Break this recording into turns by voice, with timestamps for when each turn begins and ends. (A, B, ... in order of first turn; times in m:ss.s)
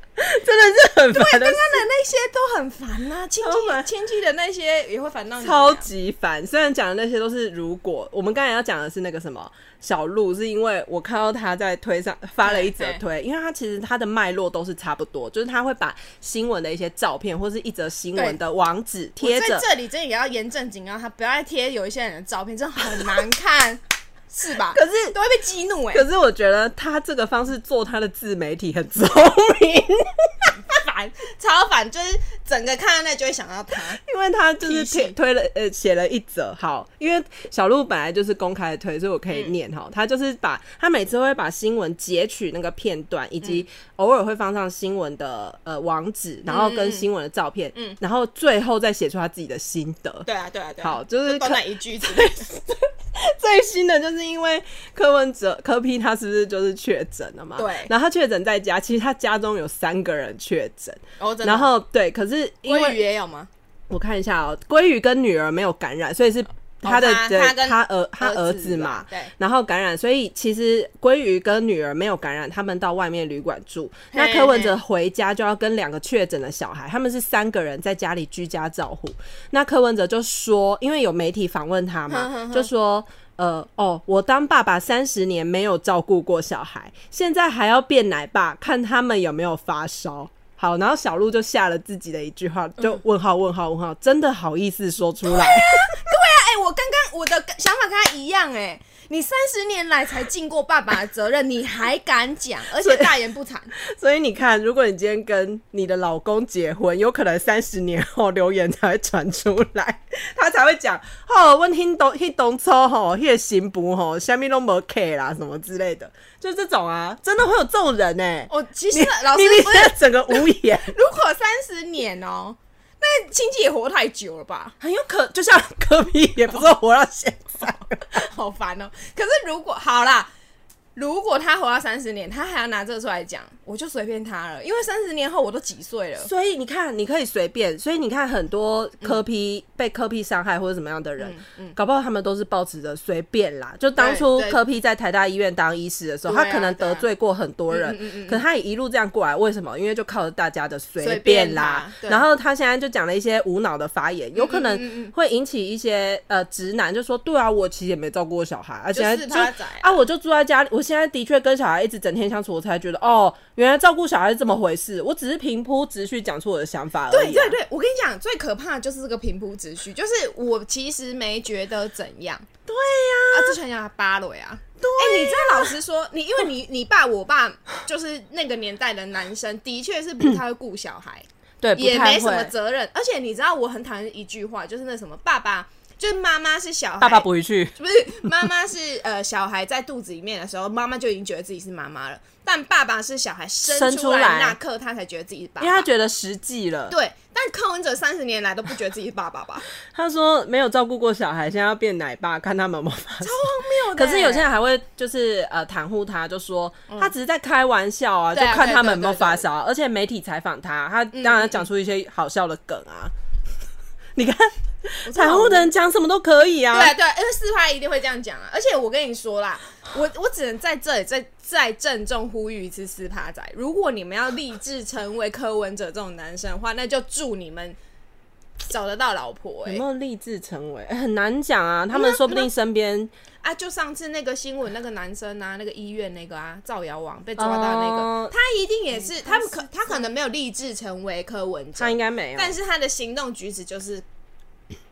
0:00.2-0:01.8 A
0:01.1-0:05.9 B
0:03.4-0:03.9 A
0:05.4-0:19.6 A
0:12.4-0:13.0 B
0:19.2-0:26.0 B
0:24.7-0:25.1 A
0:25.9-0:30.6 A
0:30.7-0:34.0 B
0:34.0-0:50.3 A
0:34.6-0:35.1 B
0:46.5-0:47.1 B
0:50.2-0:52.4 B
0:50.8-1:03.0 A
0:57.6-0:57.9 B
1:01.2-1:01.7 B
1:02.6-1:03.5 B
1:03.9-1:36.0 A
1:06.8-1:09.3 B
1:14.1-1:14.8 B
1:22.1-1:22.7 B
1:35.2-1:43.7 B
1:42.8-1:43.1 A
1:43.8-2:01.0 A
1:58.5-2:04.8 B
2:04.8-2:08.3 A
2:08.0-2:10.3 B
2:11.0-2:16.3 B
2:16.2-2:47.6 A
2:21.2-2:21.8 B
2:24.0-2:24.6 B
2:26.2-2:27.0 B
2:27.7-2:28.4 B
2:31.0-2:32.2 B
2:34.4-2:35.1 B
2:38.9-2:39.9 B
2:47.1-2:52.5 B
2:52.7-2:53.6 A
2:53.3-3:15.9 B
2:54.8-2:55.8 A
3:01.6-3:02.5 A
3:07.0-3:07.8 A
3:13.6-3:14.6 A
3:15.6-3:17.0 A
3:16.9-3:19.7 B
3:19.9-3:33.1 A
3:23.2-3:24.5 B
3:28.3-3:29.4 B
3:31.1-3:31.6 B
3:34.2-3:37.0 A
3:35.0-3:35.7 B
3:36.7-3:47.8 B
3:48.6-3:49.8 B
3:49.6-3:53.1 A
3:51.9-3:52.5 B
3:53.4-4:04.0 B
3:57.4-3:58.4 A
3:58.9-3:59.6 A
4:01.8-4:02.6 A